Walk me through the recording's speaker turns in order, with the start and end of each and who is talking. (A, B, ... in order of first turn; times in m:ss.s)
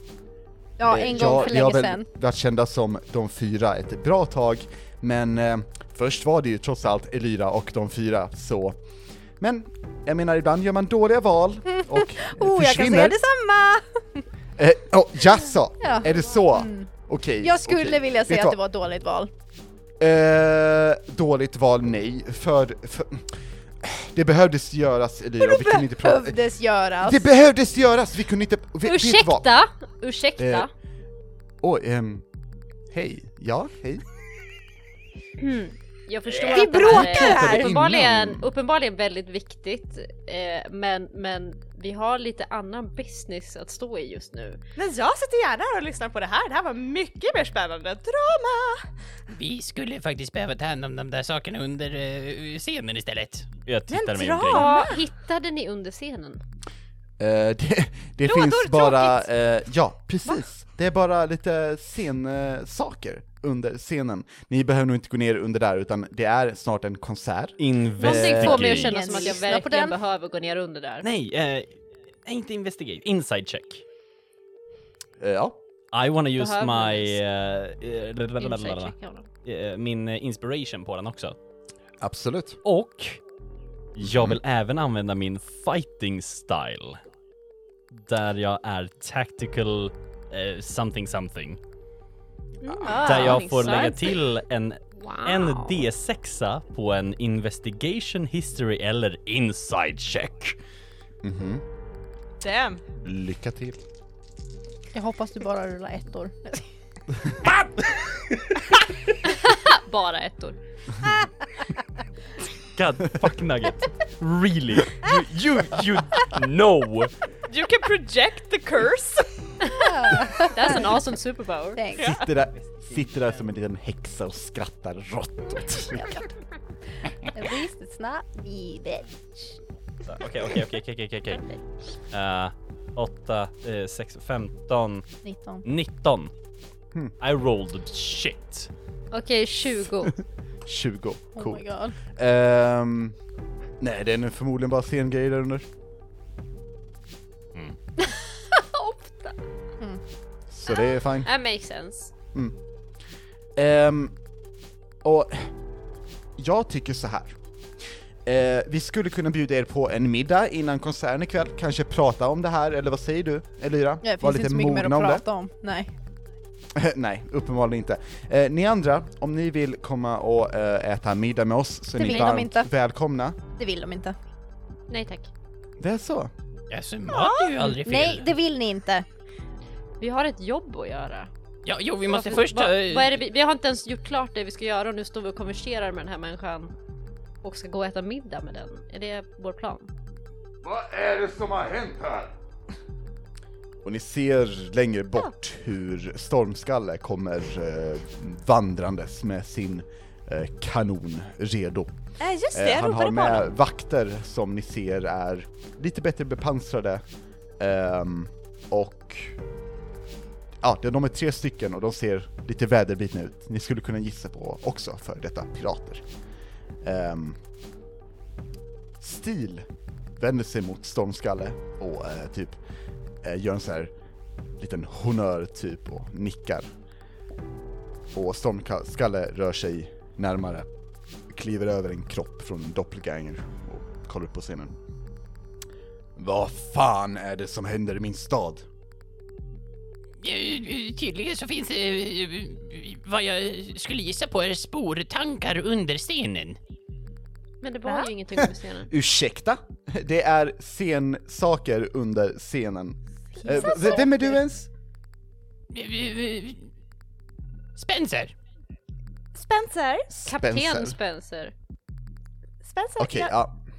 0:00.8-0:02.1 A
0:00.9-0:08.8 B
0:09.4-0:13.2 B
0:11.7-0:14.3 A
0:14.6-0:18.6 B
0:15.8-0:19.3 A
0:20.0-0:29.5 B
0:25.4-0:27.2 A
0:28.8-0:30.7 C
0:30.4-0:30.7 B
0:31.6-0:32.2 B
0:32.9-0:34.0 B
0:35.4-0:44.6 C
0:36.5-0:37.7 A
0:36.5-0:36.8 D
0:36.7-0:38.5 B
0:44.8-0:48.9 D
0:49.3-0:53.5 E
0:53.6-0:54.8 F
0:53.9-0:55.0 D
0:54.5-0:56.4 C
0:57.2-1:08.8 B
0:58.2-0:59.3 D
1:07.6-1:09.0 F
1:08.0-1:11.1 C
1:08.1-1:10.0 A
1:11.0-1:13.8 F
1:15.2-1:15.6 B
1:15.9-1:21.4 F
1:16.4-1:17.2 C
1:18.4-1:19.3 C
1:22.0-1:22.6 B
1:22.6-1:23.2 F
1:24.0-1:27.0 F
1:24.0-1:24.4 B
1:27.9-1:31.6 F
1:32.6-1:34.1 C
1:32.8-1:34.1 A
1:33.0-1:40.6 F
1:35.0-1:35.8 C
1:41.2-1:41.6 B
1:42.4-1:42.8 D
1:43.0-1:43.8 B
1:44.9-1:46.7 A
1:49.2-1:50.6 C
1:52.7-1:57.2 F
1:57.5-1:59.3 D
1:59.8-2:00.9 A
2:00.4-2:01.8 C
2:01.8-2:02.1 A
2:02.0-2:02.3 D
2:02.0-2:06.2 B
2:05.9-2:06.3 A
2:07.1-2:09.6 A
2:10.1-2:11.4 F
2:12.1-2:15.1 F
2:15.2-2:15.6 A
2:15.6-2:16.3 F
2:17.2-2:18.7 F
2:19.1-2:20.2 C
2:20.7-2:23.2 B
2:21.4-2:22.0 A
2:23.8-2:25.7 B
2:28.0-2:29.4 C
2:30.5-2:31.3 B
2:30.7-2:32.1 C
2:33.6-2:34.2 B
2:35.0-2:35.5 B
2:36.4-2:37.4 B
2:38.2-2:45.2 B
2:44.0-2:45.9 A
2:46.8-2:53.4 B
2:52.0-2:52.7 A
2:53.6-2:54.2 A
2:54.9-2:55.3 C
2:55.8-2:56.3 B
2:56.7-2:58.3 E
2:57.6-2:59.1 A
3:00.0-3:01.3 C
3:01.7-3:03.2 E
3:02.1-3:06.7 C
3:07.4-3:09.9 C
3:10.6-3:12.3 B
3:13.8-3:22.0 B
3:22.2-3:23.5 D
3:22.5-3:27.0 B
3:27.6-3:29.4 B
3:30.6-3:36.0 B
3:36.8-3:37.4 B
3:39.0-3:42.6 B
3:43.2-3:43.9 B
3:44.6-3:46.7 B
3:48.1-3:50.7 B
3:51.3-3:54.8 B
3:56.2-3:58.7 B
4:00.2-4:06.6 E
4:07.6-4:08.9 C
4:08.4-4:14.7 B
4:13.4-4:14.1 A
4:13.5-4:14.0 D
4:15.7-4:16.7 E
4:17.8-4:18.3 E
4:19.3-4:20.1 D
4:20.1-4:21.0 B
4:20.3-4:21.5 C
4:22.6-4:23.3 D
4:23.0-4:23.6 B